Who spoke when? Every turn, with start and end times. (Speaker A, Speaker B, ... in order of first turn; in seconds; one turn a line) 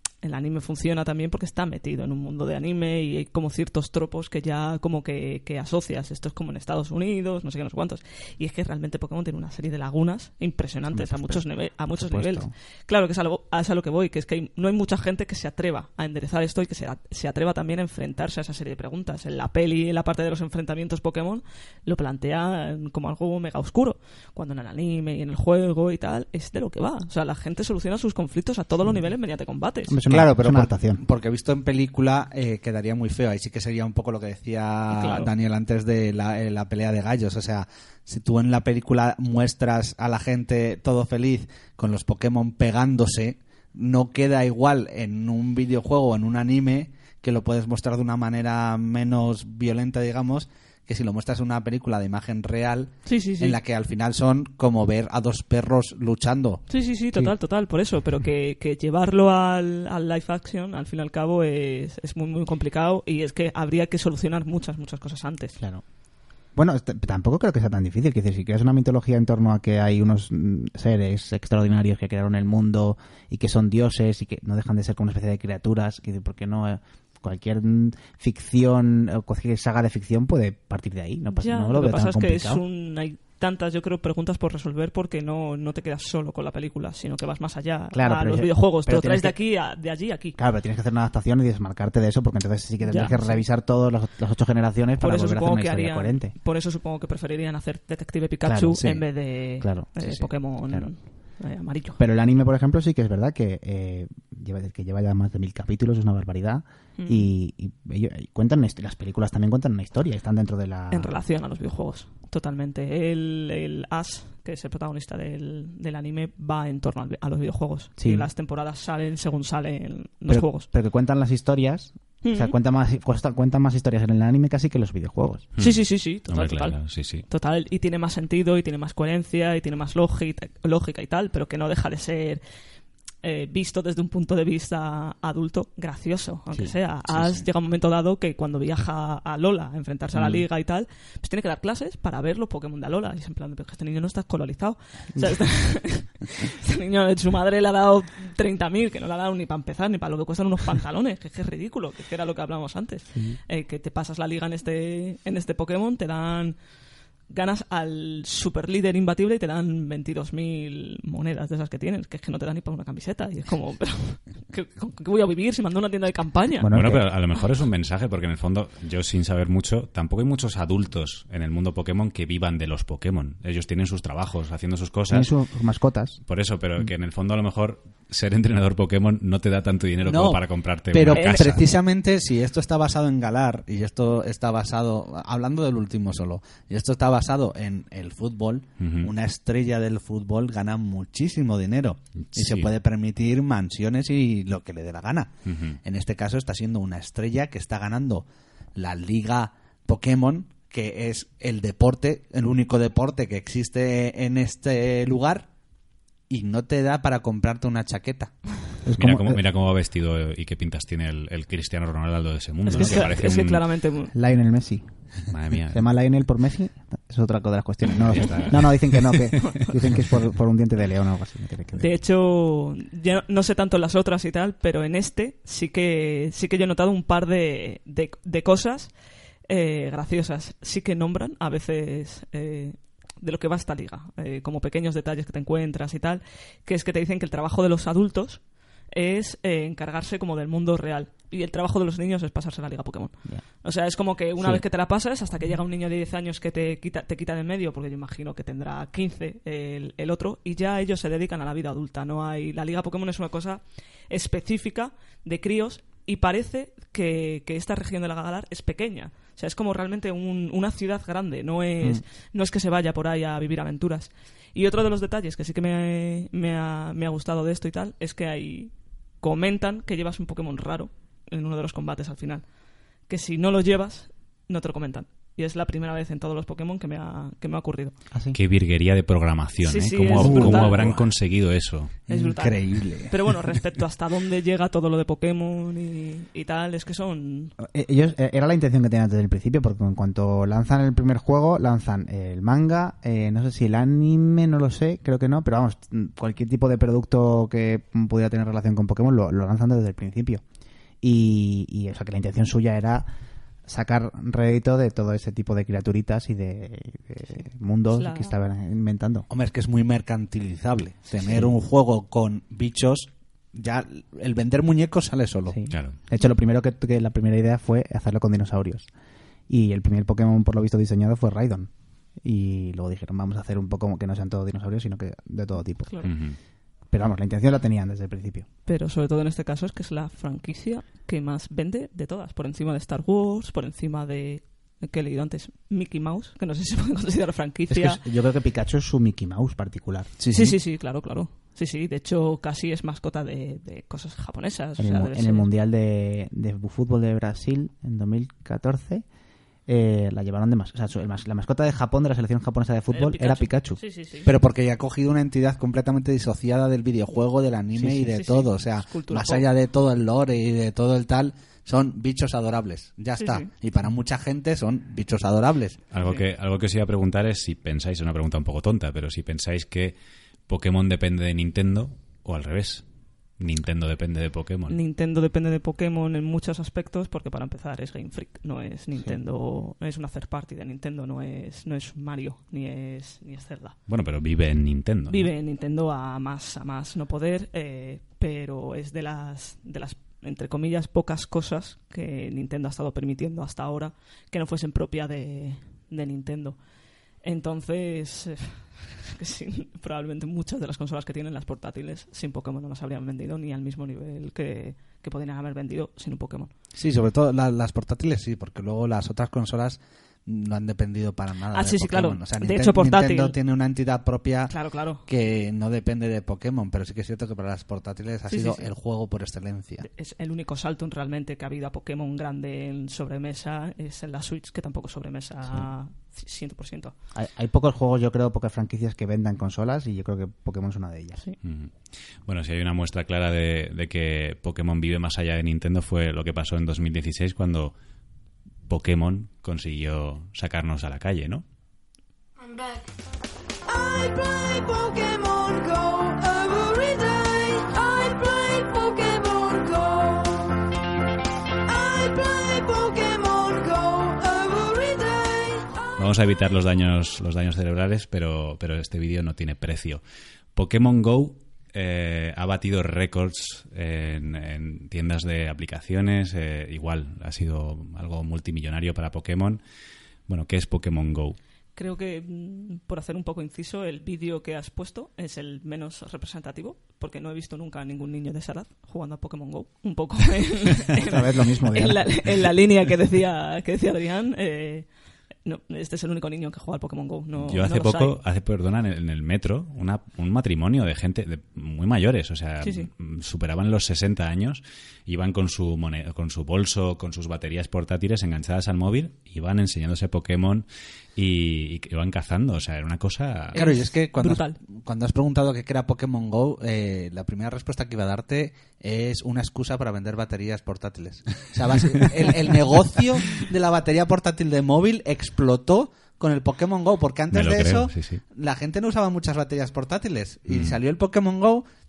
Speaker A: 0.2-30.0
Speaker B: 10.9-12.5
Speaker B: 29.9-31.0
Speaker C: 30.1-56.6
Speaker A: 34.9-35.3
Speaker A: 53.0-53.6
Speaker A: 56.7-65.6
Speaker B: 66.5-82.6
Speaker A: 81.3-90.4
Speaker B: 87.9-89.4
Speaker B: 90.4-96.3
Speaker A: 92.8-93.4
Speaker A: 95.0-102.0
Speaker B: 98.5-98.9
Speaker B: 99.6-100.0
Speaker B: 102.0-111.2
Speaker A: 107.0-107.3
Speaker A: 110.9-120.7
Speaker B: 118.0-118.3
Speaker B: 120.3-125.5
Speaker A: 122.2-122.6
Speaker D: 125.6-127.3
Speaker A: 125.6-132.4
Speaker A: 133.2-156.6
Speaker C: 137.1-137.4
Speaker B: 140.2-140.4
Speaker B: 145.1-145.4
Speaker B: 153.1-153.4
Speaker A: 157.3-166.7
Speaker B: 166.6-167.1
Speaker D: 166.7-175.3
Speaker B: 175.1-176.2
Speaker D: 176.3-181.7
Speaker C: 180.0-195.3
Speaker A: 181.1-181.4
Speaker D: 188.8-189.1
Speaker D: 192.3-192.7
Speaker D: 195.5-195.8
Speaker C: 195.8-198.2
Speaker C: 198.8-205.5
Speaker C: 206.3-208.4
Speaker B: 208.8-209.4
Speaker D: 209.0-213.6
Speaker A: 212.7-214.1
Speaker B: 212.7-213.4
Speaker B: 214.1-221.9
Speaker D: 215.3-215.8
Speaker D: 217.9-219.4
Speaker A: 221.8-228.9
Speaker A: 229.5-272.5
Speaker A: 273.1-278.0
Speaker B: 278.1-278.4
Speaker D: 278.3-282.0
Speaker A: 279.6-281.1
Speaker B: 280.2-281.0
Speaker C: 282.1-283.2
Speaker A: 282.1-287.6
Speaker B: 287.6-300.4
Speaker B: 301.0-303.1
Speaker B: 303.7-309.3
Speaker A: 307.9-308.4
Speaker C: 309.3-315.6
Speaker B: 311.2-311.6
Speaker B: 315.5-318.9
Speaker D: 315.7-316.0
Speaker B: 319.5-326.2
Speaker D: 326.0-326.4
Speaker B: 326.9-328.5
Speaker A: 328.7-338.0
Speaker B: 337.7-340.1
Speaker C: 340.2-340.6
Speaker A: 340.3-345.5
Speaker B: 344.8-349.1
Speaker B: 349.7-353.8
Speaker A: 352.9-354.3
Speaker C: 354.3-365.8
Speaker A: 357.8-359.5
Speaker A: 363.2-363.5
Speaker D: 365.9-369.9
Speaker D: 370.5-372.8
Speaker D: 373.4-374.8
Speaker A: 374.7-383.8
Speaker D: 383.9-385.3
Speaker A: 385.1-396.6
Speaker A: 397.2-406.5
Speaker C: 406.8-419.9
Speaker A: 411.5-413.4
Speaker A: 414.5-415.0
Speaker A: 418.3-418.7
Speaker A: 419.8-426.9
Speaker B: 427.1-431.2
Speaker D: 431.4-431.7
Speaker D: 432.3-437.7
Speaker D: 438.7-441.4
Speaker E: 442.4-442.9
Speaker E: 443.7-450.6
Speaker E: 451.7-455.8
Speaker D: 456.0-460.0
Speaker D: 460.6-469.6
Speaker D: 470.3-471.4
Speaker A: 471.8-484.9
Speaker B: 481.0-482.5
Speaker A: 485.4-488.2
Speaker D: 487.5-503.6
Speaker A: 492.6-492.9
Speaker A: 503.5-504.6
Speaker C: 503.5-521.6
Speaker D: 517.3-518.2
Speaker D: 520.5-520.8